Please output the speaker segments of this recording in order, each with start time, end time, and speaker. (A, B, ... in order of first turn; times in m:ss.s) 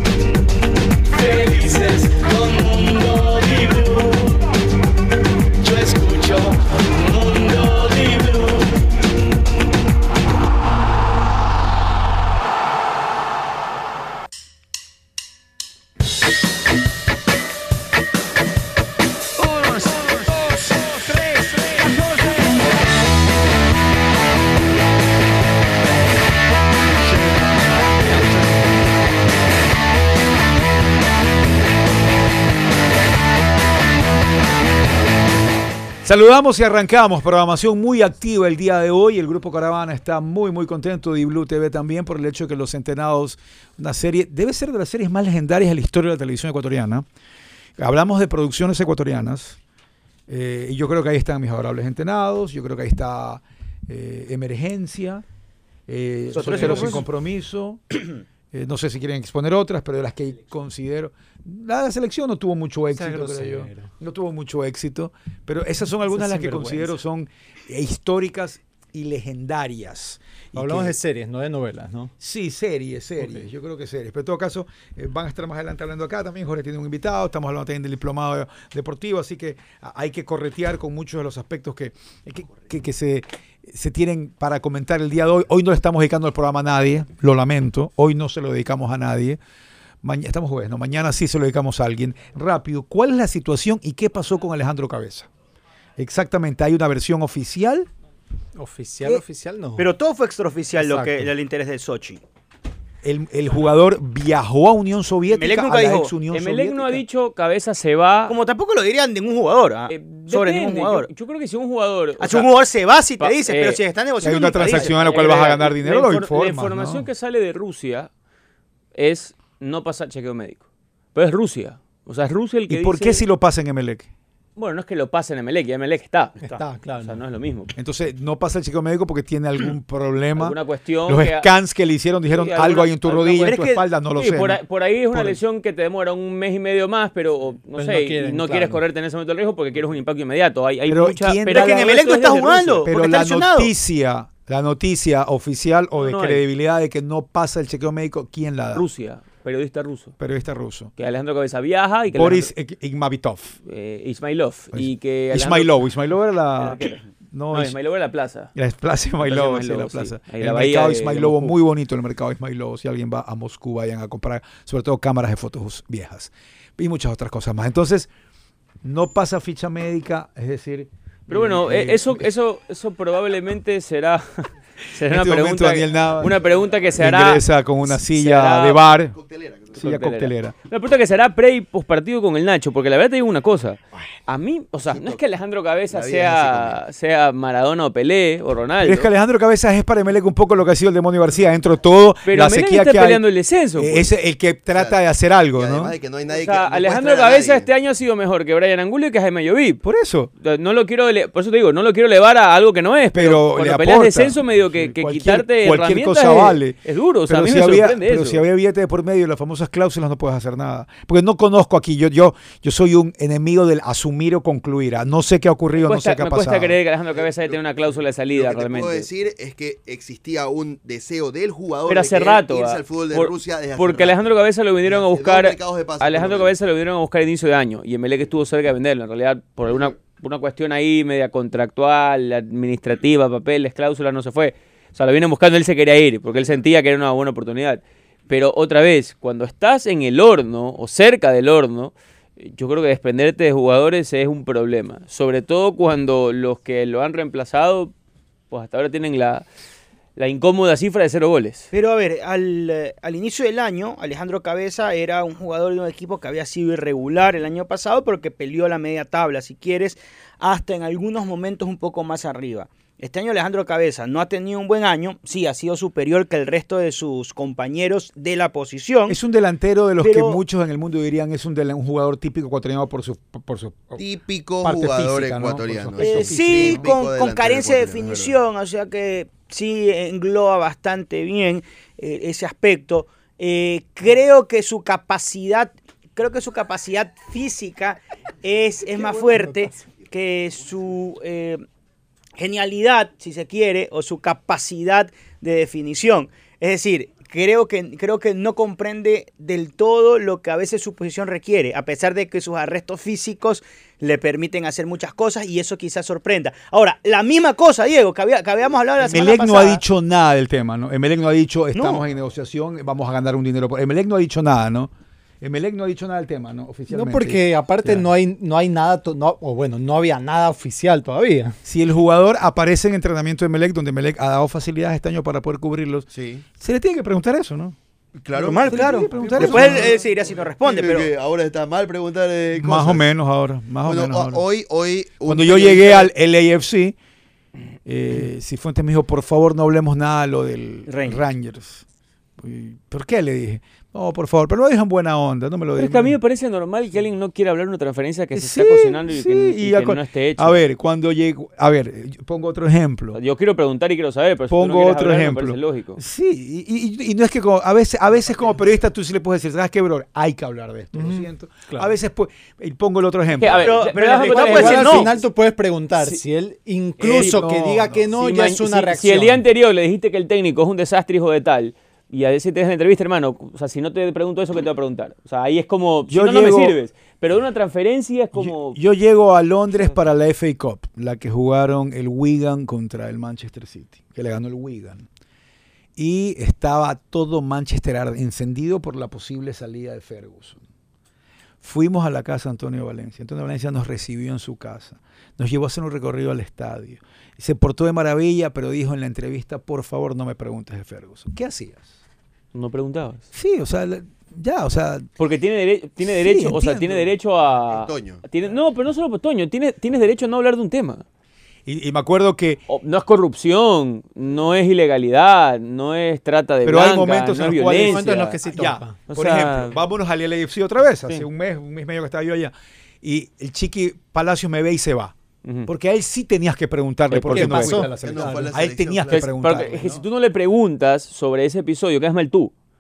0:01.1-0:04.1 A
0:05.6-0:08.5 A
0:36.0-0:47.1 B
0:47.8-0:49.6 B
0:50.3-0:55.2 B
0:55.9-0:57.8 B
0:56.3-0:57.1 C
0:58.5-1:11.0 B
1:03.0-1:03.8 D
1:06.1-1:07.0 D
1:10.6-1:12.1 D
1:12.2-1:29.4 B
1:13.2-1:13.4 D
1:30.0-1:35.3 B
1:36.0-1:37.9 B
1:38.6-1:39.9 D
1:39.8-1:42.2 C
1:40.8-1:41.3 D
1:43.0-1:47.0 B
1:45.3-1:46.1 C
1:46.3-1:48.4 E
1:48.3-1:51.1 C
1:49.9-1:52.5 E
1:52.2-1:54.9 C
1:53.2-1:53.8 E
1:54.2-1:57.1 B
1:54.7-1:58.1 E
1:59.0-2:03.2 E
2:02.7-2:04.1 B
2:04.6-2:07.7 E
2:06.4-2:07.2 D
2:07.8-2:14.6 B
2:10.4-2:11.5 E
2:12.3-2:13.6 E
2:13.4-2:13.8 C
2:14.2-2:22.9 E
2:15.1-2:15.4 B
2:17.8-2:18.8 D
2:20.9-2:22.1 B
2:21.5-2:23.7 C
2:22.8-2:28.9 B
2:26.0-2:26.4 E
2:28.7-2:30.1 E
2:30.2-2:30.9 B
2:31.0-2:32.5 E
2:32.1-2:33.6 B
2:33.7-2:35.7 E
2:34.7-2:37.8 B
2:36.6-2:38.5 E
2:38.6-2:48.1 B
2:39.2-2:41.6 E
2:48.8-2:52.3 B
2:51.3-2:58.8 E
2:55.0-2:56.4 B
2:57.0-2:59.2 B
2:59.1-2:59.8 F
2:59.7-3:00.6 B
2:59.8-3:09.1 E
3:04.9-3:05.2 F
3:05.9-3:06.8 F
3:08.8-3:13.2 B
3:12.3-3:14.1 E
3:13.8-3:16.0 B
3:14.7-3:15.0 F
3:15.5-3:17.7 F
3:16.3-3:19.8 E
3:19.8-3:20.3 B
3:20.4-3:28.4 E
3:23.1-3:36.8 B
3:35.8-3:39.1 E
3:37.2-3:44.2 F
3:41.9-4:07.9 E
3:44.8-3:46.5 F
4:08.5-4:09.4 E
4:10.2-4:11.7 E
4:11.7-4:29.2 C
4:29.1-4:34.0 B
4:30.0-4:30.4 C
4:34.0-4:38.4 F
4:34.6-4:36.9 B
4:36.0-4:51.6 C
4:49.1-4:49.5 D
4:52.4-5:09.8 C
5:09.0-5:18.1 B
5:11.8-5:12.0 C
5:16.9-5:21.6 D
5:21.6-5:26.1 B
5:26.1-5:26.4 F
5:26.6-5:27.8 B
5:28.2-5:33.1 F
5:28.4-5:30.0 B
5:28.6-5:31.1 C
5:32.6-5:34.4 B
5:33.8-5:36.1 F
5:35.2-5:37.0 B
5:37.8-5:41.8 B
5:40.9-5:41.2 C
5:42.4-5:46.2 B
5:45.8-5:50.6 E
5:48.3-5:53.2 B
5:53.1-5:56.0 E
5:54.5-6:03.9 B
6:00.9-6:01.9 D
6:03.4-6:05.2 E
6:03.6-6:05.1 C
6:04.3-6:09.4 D
6:06.0-6:06.2 E
6:07.0-6:07.5 E
6:07.1-6:08.1 B
6:08.1-6:18.8 E
6:16.1-6:16.8 B
6:18.3-6:25.1 B
6:26.0-6:30.6 B
6:31.6-6:42.0 B
6:42.5-6:43.3 E
6:43.3-6:45.1 B
6:45.2-6:51.0 E
6:46.0-6:47.1 B
6:47.7-6:48.2 F
6:51.7-6:52.6 B
6:52.7-6:58.4 E
6:56.6-7:05.1 B
6:57.7-6:59.0 D
6:59.1-6:59.8 E
7:05.7-7:10.0 B
7:07.1-7:07.8 E
7:07.3-7:08.6 D
7:08.0-7:09.9 F
7:09.4-7:12.5 E